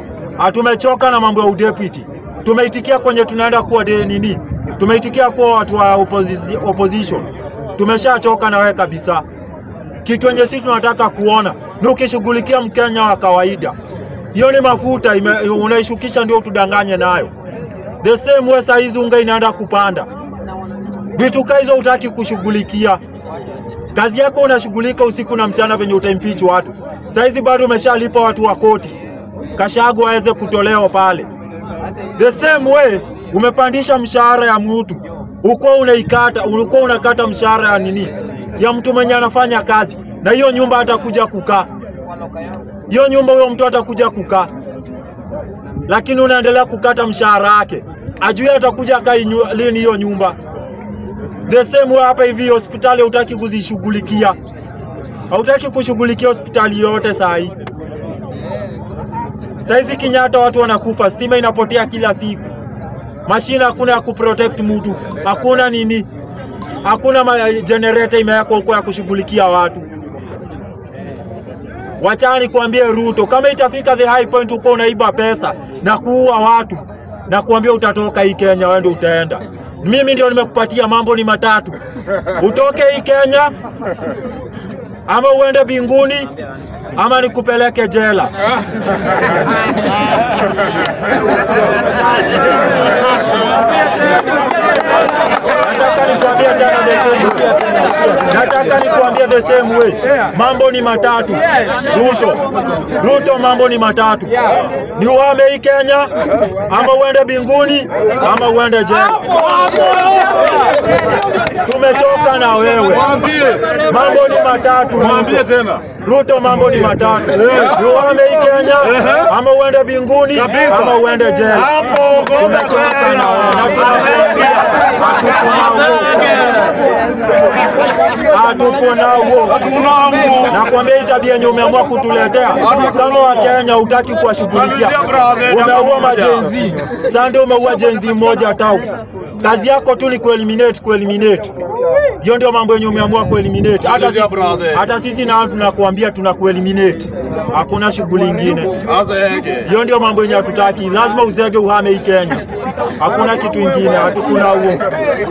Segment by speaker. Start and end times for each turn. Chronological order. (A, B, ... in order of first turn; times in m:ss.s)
0:00.4-0:09.2 A
0:10.0-0:13.8 A
0:14.3-0:17.3 A
0:18.0-0:20.1 A
0:21.2-0:23.0 A
0:24.0-0:29.0 A
0:29.6-0:31.3 A
0:32.2-0:41.7 A
0:42.9-0:44.5 A
0:45.9-0:50.4 A
0:51.5-0:54.4 A
0:55.3-0:57.5 A
0:59.6-1:02.4 A
1:03.3-1:06.1 A
1:06.8-1:09.9 A
1:12.0-1:21.8 A
1:22.3-1:23.5 A
1:25.1-1:26.3 A
1:27.0-1:28.3 A
1:35.6-1:49.4 A
1:49.4-1:50.4 B
1:51.6-1:53.2 A
1:53.1-1:53.9 B
1:53.8-2:01.8 A
1:55.1-1:55.8 B
2:00.4-2:01.0 B
2:01.6-2:04.8 B
2:02.3-2:06.4 A
2:06.0-2:06.6 B
2:08.1-2:09.7 A
2:09.6-2:10.5 B
2:10.5-2:21.5 A
2:14.8-2:16.5 B
2:22.2-2:28.8 A
2:23.9-2:24.8 B
2:28.8-2:29.7 B
2:29.6-2:32.5 A
2:33.0-2:34.9 A